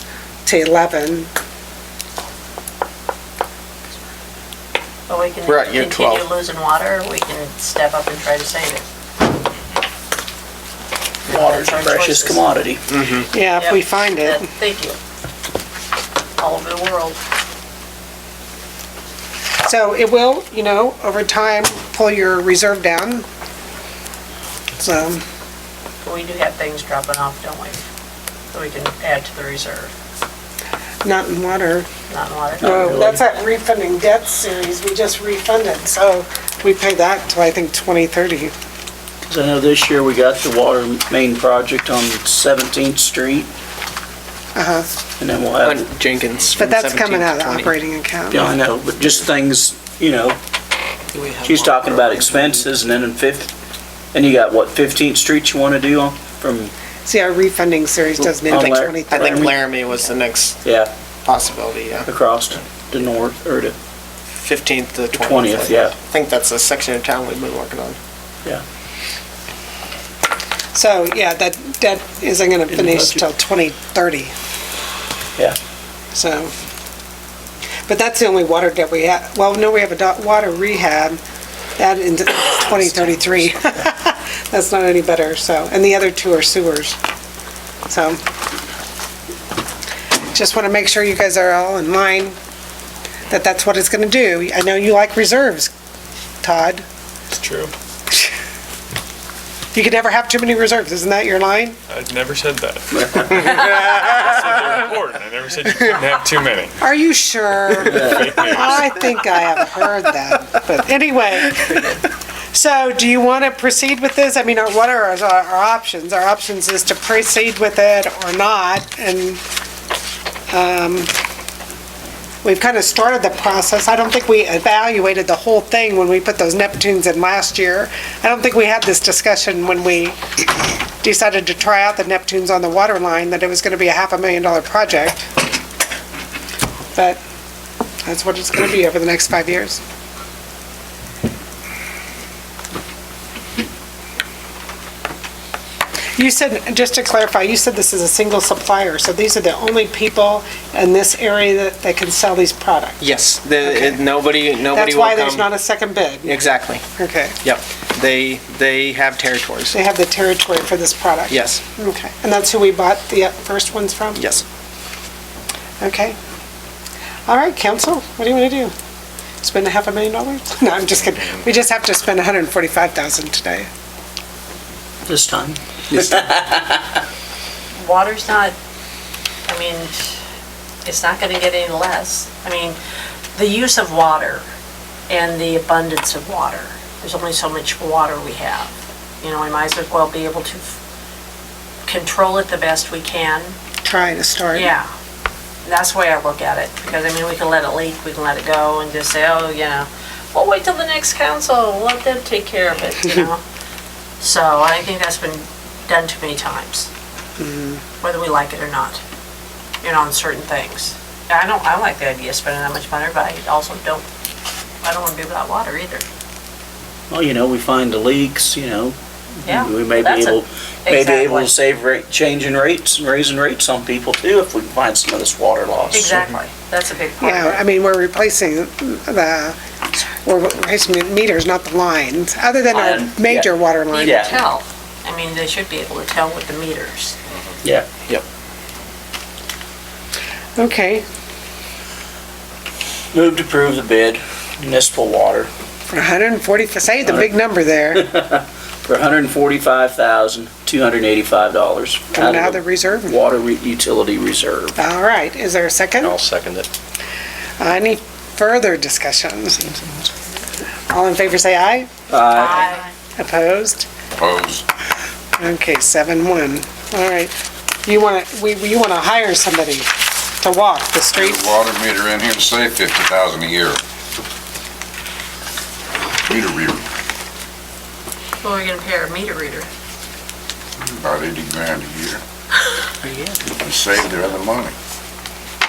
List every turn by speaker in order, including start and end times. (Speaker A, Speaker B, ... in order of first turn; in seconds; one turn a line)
Speaker A: 0.4-1.3
Speaker B: 5.1-8.8
Speaker C: 5.5-6.3
Speaker B: 11.3-12.4
Speaker D: 11.3-12.8
Speaker C: 12.9-13.3
Speaker A: 13.3-14.4
Speaker B: 13.5-15.0
Speaker B: 16.4-17.2
Speaker A: 19.6-23.2
Speaker A: 24.8-25.2
Speaker B: 26.0-27.8
Speaker B: 28.5-29.9
Speaker A: 31.0-31.9
Speaker B: 32.1-32.9
Speaker D: 32.6-33.2
Speaker A: 32.6-38.5
Speaker D: 39.3-43.5
Speaker A: 44.5-44.9
Speaker D: 45.2-45.9
Speaker C: 45.6-47.7
Speaker A: 46.6-48.5
Speaker D: 48.3-50.4
Speaker C: 51.1-52.5
Speaker D: 51.4-53.5
Speaker D: 54.1-56.7
Speaker A: 57.0-59.5
Speaker D: 58.3-59.5
Speaker C: 59.1-60.6
Speaker D: 60.6-60.9
Speaker C: 61.2-62.0
Speaker D: 62.0-63.7
Speaker C: 64.3-68.0
Speaker D: 65.1-65.9
Speaker A: 70.7-74.3
Speaker D: 72.7-73.2
Speaker A: 76.1-76.5
Speaker A: 77.9-81.2
Speaker A: 81.8-87.0
Speaker D: 83.0-83.3
Speaker A: 87.9-88.2
Speaker A: 90.3-92.3
Speaker A: 93.3-95.7
Speaker A: 96.4-96.8
Speaker E: 97.3-97.7
Speaker A: 99.7-101.8
Speaker E: 101.9-106.8
Speaker A: 106.8-112.0
Speaker E: 107.7-108.8
Speaker A: 112.5-119.4
Speaker A: 120.5-121.1
Speaker A: 122.4-130.2
Speaker A: 131.0-135.3
Speaker A: 136.9-137.2
Speaker A: 138.0-139.8
Speaker A: 146.2-153.0
Speaker C: 153.0-155.5
Speaker A: 153.6-154.0
Speaker A: 154.7-156.4
Speaker C: 156.2-156.8
Speaker A: 156.9-157.4
Speaker C: 157.4-159.7
Speaker A: 159.7-164.2
Speaker C: 161.3-161.6
Speaker C: 164.1-164.4
Speaker A: 165.8-166.2
Speaker A: 167.3-168.7
Speaker A: 169.4-173.7
Speaker D: 175.1-177.0
Speaker B: 177.8-178.5
Speaker B: 179.5-180.2
Speaker B: 180.8-182.8
Speaker B: 183.3-184.4
Speaker B: 185.1-190.7
Speaker B: 191.8-193.6
Speaker A: 193.8-194.7
Speaker B: 194.5-194.9
Speaker B: 195.6-203.4
Speaker B: 204.2-206.9
Speaker A: 207.4-207.8
Speaker B: 208.0-209.0
Speaker B: 209.8-214.0
Speaker B: 214.8-216.0
Speaker D: 217.1-226.3
Speaker B: 219.4-221.5
Speaker B: 225.9-227.6
Speaker A: 227.2-234.3
Speaker D: 232.7-234.4
Speaker B: 233.9-237.2
Speaker A: 240.6-241.0
Speaker D: 243.1-245.5
Speaker A: 245.9-248.1
Speaker D: 247.0-247.3
Speaker D: 247.9-254.8
Speaker A: 252.1-253.1
Speaker A: 254.8-256.2
Speaker C: 256.2-256.6
Speaker A: 257.6-259.7
Speaker A: 260.9-261.9
Speaker B: 262.3-262.9
Speaker C: 262.3-262.6
Speaker A: 263.2-263.9
Speaker F: 264.2-264.6
Speaker A: 265.4-267.3
Speaker A: 267.9-271.5
Speaker F: 271.1-273.8
Speaker F: 276.2-276.8
Speaker B: 278.4-279.7
Speaker F: 280.8-282.2
Speaker F: 283.5-284.7